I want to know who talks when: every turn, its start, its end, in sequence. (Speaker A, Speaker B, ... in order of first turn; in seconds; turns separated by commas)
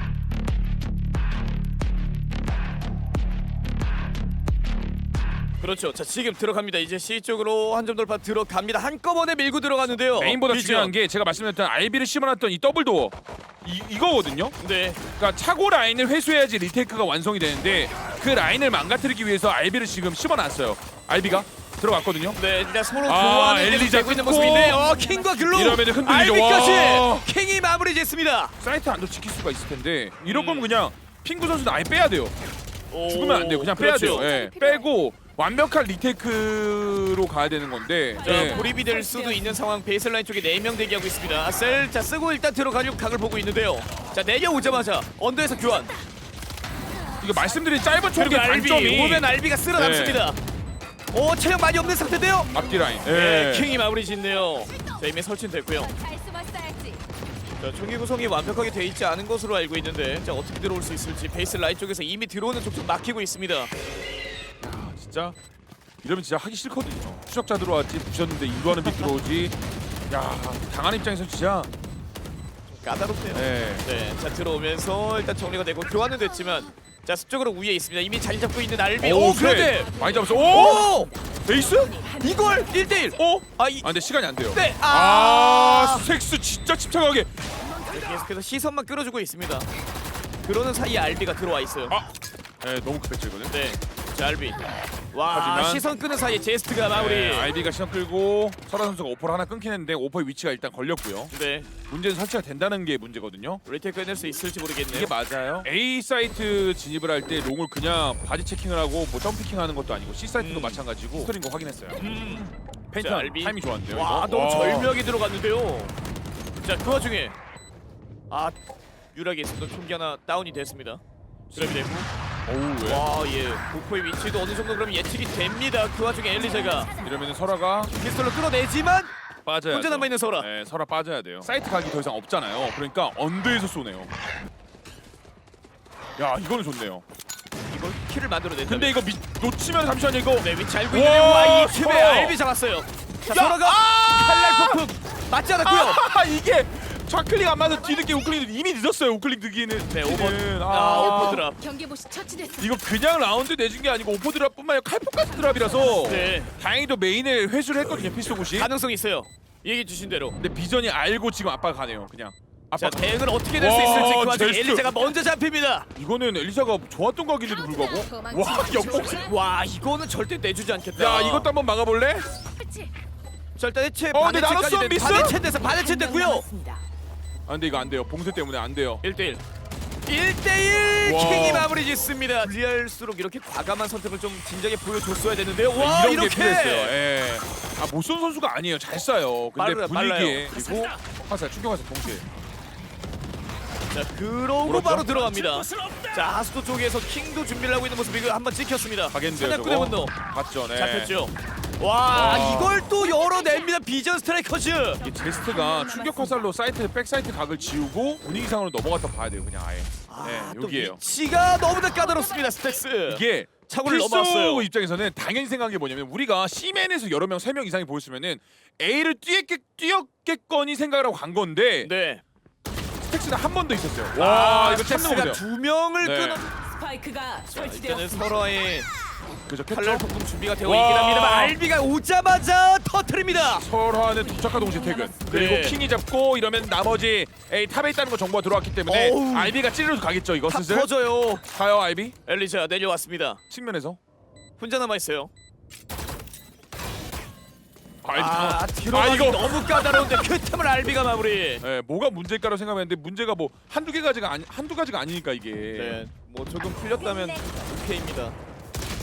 Speaker A: 5.6-10.9, Speaker B: 10.1-14.5, Speaker A: 14.6-15.0, Speaker B: 15.1-22.4, Speaker A: 22.3-28.5, Speaker B: 23.0-24.8, Speaker C: 24.5-25.7, Speaker B: 25.5-27.3, Speaker B: 28.6-32.3, Speaker A: 30.2-30.7, Speaker A: 32.9-34.3, Speaker B: 33.1-38.6, Speaker C: 34.0-34.9, Speaker C: 38.2-39.6, Speaker A: 38.2-45.9, Speaker B: 47.2-50.3, Speaker A: 48.1-50.4, Speaker A: 51.1-52.5, Speaker B: 52.5-53.8, Speaker A: 53.0-55.9, Speaker C: 55.9-57.0, Speaker A: 57.6-63.7, Speaker B: 64.6-65.4, Speaker B: 66.0-69.5, Speaker B: 70.1-71.7, Speaker A: 72.7-79.9, Speaker B: 73.3-73.9, Speaker B: 79.0-80.9, Speaker C: 79.6-82.7, Speaker A: 80.5-81.1, Speaker B: 81.5-82.0, Speaker A: 82.2-83.9, Speaker B: 83.2-87.3, Speaker A: 84.5-86.1, Speaker C: 87.7-88.0, Speaker A: 87.9-89.7, Speaker A: 90.4-92.0, Speaker B: 92.6-93.6, Speaker A: 93.5-97.5, Speaker B: 95.3-95.8, Speaker B: 96.9-101.3, Speaker A: 101.3-101.7, Speaker B: 101.9-103.6, Speaker A: 103.7-105.1, Speaker B: 104.9-112.1, Speaker A: 110.4-110.8, Speaker A: 112.0-115.9, Speaker B: 112.9-115.0, Speaker A: 116.6-117.3, Speaker A: 118.3-118.6, Speaker A: 119.1-121.0, Speaker B: 121.5-121.8, Speaker A: 121.5-122.1, Speaker B: 122.5-123.0, Speaker A: 122.8-127.0, Speaker B: 126.9-127.9, Speaker A: 127.9-129.1, Speaker B: 129.4-134.1, Speaker A: 129.7-130.5, Speaker B: 136.2-137.0, Speaker A: 137.7-139.0, Speaker B: 138.7-142.4, Speaker A: 140.4-146.0, Speaker B: 143.3-144.8, Speaker B: 145.6-151.4, Speaker A: 149.9-151.6, Speaker C: 150.9-152.7, Speaker B: 152.6-158.7, Speaker C: 155.4-156.2, Speaker A: 156.0-156.5, Speaker A: 158.5-160.3, Speaker B: 160.4-164.9, Speaker A: 162.8-165.9, Speaker B: 165.9-169.3, Speaker C: 168.1-169.2, Speaker A: 169.1-171.5, Speaker B: 170.9-172.2, Speaker C: 172.6-172.9, Speaker A: 173.6-176.4, Speaker B: 174.1-175.4, Speaker C: 175.5-176.8, Speaker B: 177.5-179.0, Speaker A: 179.0-179.4, Speaker A: 180.1-186.9, Speaker B: 181.0-181.7, Speaker B: 185.7-192.2, Speaker A: 189.6-190.9, Speaker A: 193.9-200.1, Speaker B: 194.6-196.0, Speaker B: 199.1-201.1, Speaker A: 200.7-205.0, Speaker B: 202.1-202.9, Speaker B: 205.0-211.0, Speaker C: 205.1-206.4, Speaker A: 210.1-214.7, Speaker B: 213.1-221.9, Speaker A: 221.8-222.2, Speaker B: 223.1-225.4, Speaker A: 224.1-226.4, Speaker B: 226.0-226.4, Speaker C: 226.5-228.3, Speaker A: 227.5-228.9, Speaker B: 229.5-230.1, Speaker A: 229.7-233.6, Speaker B: 230.6-231.6, Speaker B: 233.4-240.9, Speaker C: 234.0-235.3, Speaker A: 235.3-235.8, Speaker A: 238.9-239.6, Speaker A: 240.5-241.4, Speaker B: 241.5-242.1, Speaker A: 242.2-243.4, Speaker B: 243.5-244.0, Speaker A: 244.6-245.3, Speaker B: 248.0-249.7, Speaker A: 248.1-251.6, Speaker B: 251.6-256.0, Speaker A: 255.7-258.4